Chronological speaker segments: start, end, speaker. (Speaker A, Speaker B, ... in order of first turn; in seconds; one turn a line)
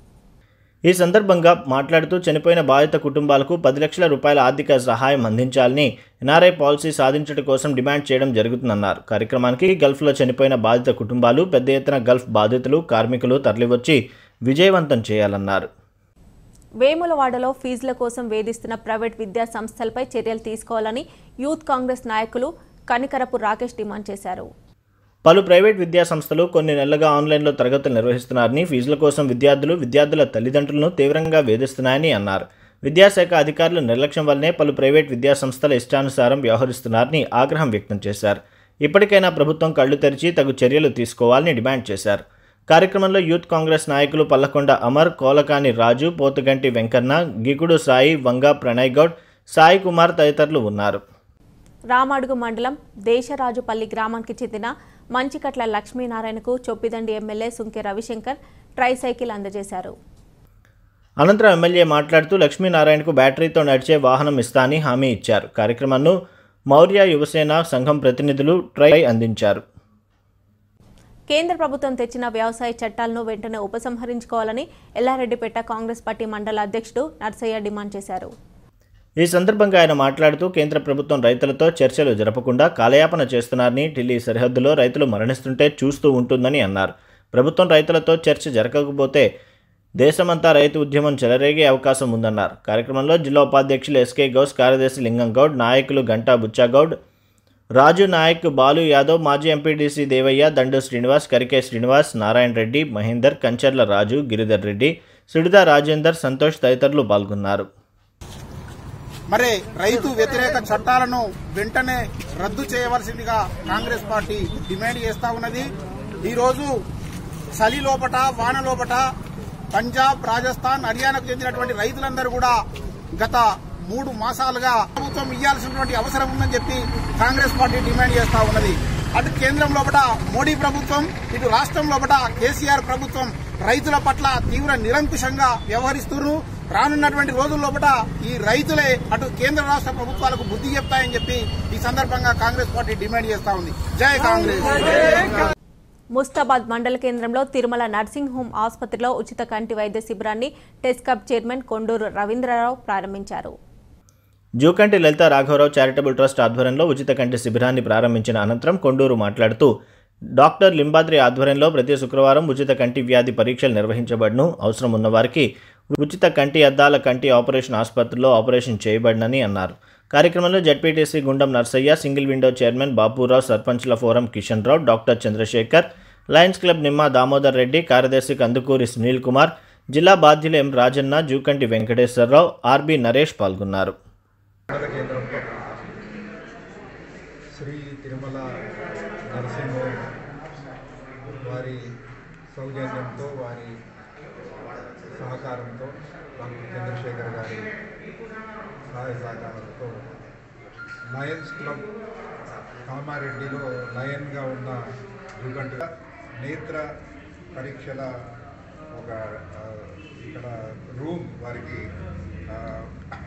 Speaker A: 0.9-15.7
Speaker B: 16.8-24.5
Speaker A: 25.3-51.0
Speaker B: 51.9-59.9
Speaker A: 61.2-66.2
Speaker A: 66.7-69.6
Speaker B: 71.3-78.3
Speaker A: 79.2-89.3
Speaker A: 90.0-97.0
Speaker A: 97.8-107.7
Speaker C: 109.3-116.8
Speaker C: 117.5-119.0
Speaker C: 119.7-122.6
Speaker C: 123.1-145.5
Speaker B: 146.2-153.5
Speaker A: 154.6-159.7
Speaker A: 160.4-183.9
Speaker D: 184.7-185.9
Speaker D: 187.6-188.4
Speaker D: 189.3-190.1
Speaker D: 191.4-191.8
Speaker D: 192.5-193.7
Speaker D: 195.1-197.7
Speaker D: 198.9-200.3
Speaker D: 201.1-201.9
Speaker D: 202.8-204.8
Speaker D: 205.4-205.9
Speaker D: 206.4-206.8
Speaker D: 207.6-208.1
Speaker D: 208.9-211.8
Speaker D: 212.5-212.9